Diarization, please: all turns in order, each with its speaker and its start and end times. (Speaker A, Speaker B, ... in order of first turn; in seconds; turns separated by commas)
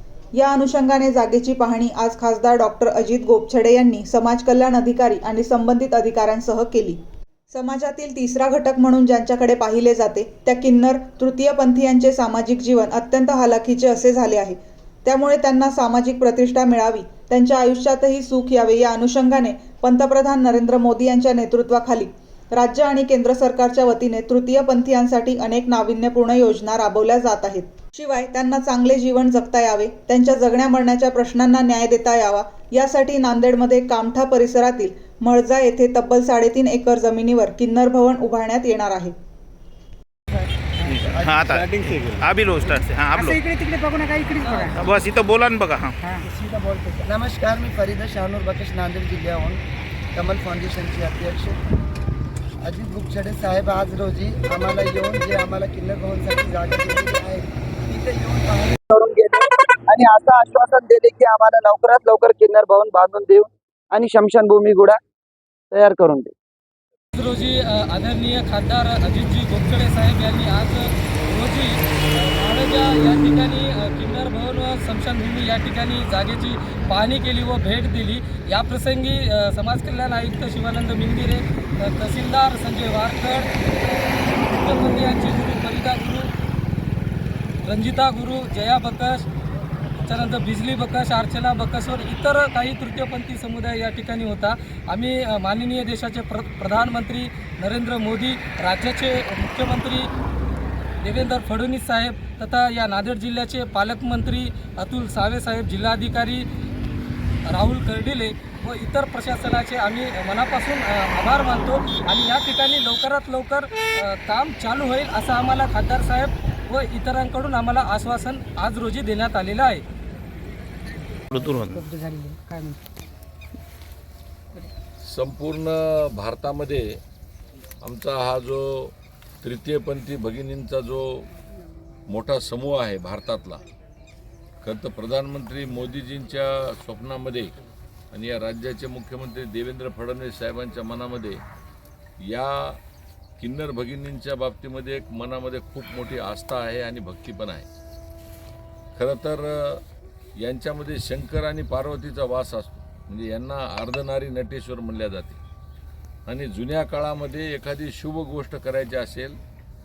Speaker A: 0.3-39.1, Speaker B: 40.3-41.9, Speaker C: 40.9-43.4, Speaker D: 43.1-44.9, Speaker E: 44.4-44.8, Speaker C: 44.7-46.0, Speaker D: 46.0-47.0, Speaker B: 47.0-49.6, Speaker B: 50.1-51.6, Speaker B: 52.6-65.0, Speaker B: 65.7-66.3, Speaker E: 67.1-86.3, Speaker E: 87.7-89.3, Speaker E: 90.0-100.1, Speaker E: 101.0-106.4, Speaker E: 107.5-119.8, Speaker C: 121.3-121.8, Speaker D: 121.3-122.8, Speaker F: 125.0-127.0, Speaker F: 127.8-131.3, Speaker F: 132.1-133.6, Speaker F: 134.6-137.5, Speaker F: 138.1-141.4, Speaker F: 142.3-142.8, Speaker F: 143.4-147.7, Speaker F: 149.0-149.8, Speaker F: 150.4-155.4, Speaker F: 156.3-159.4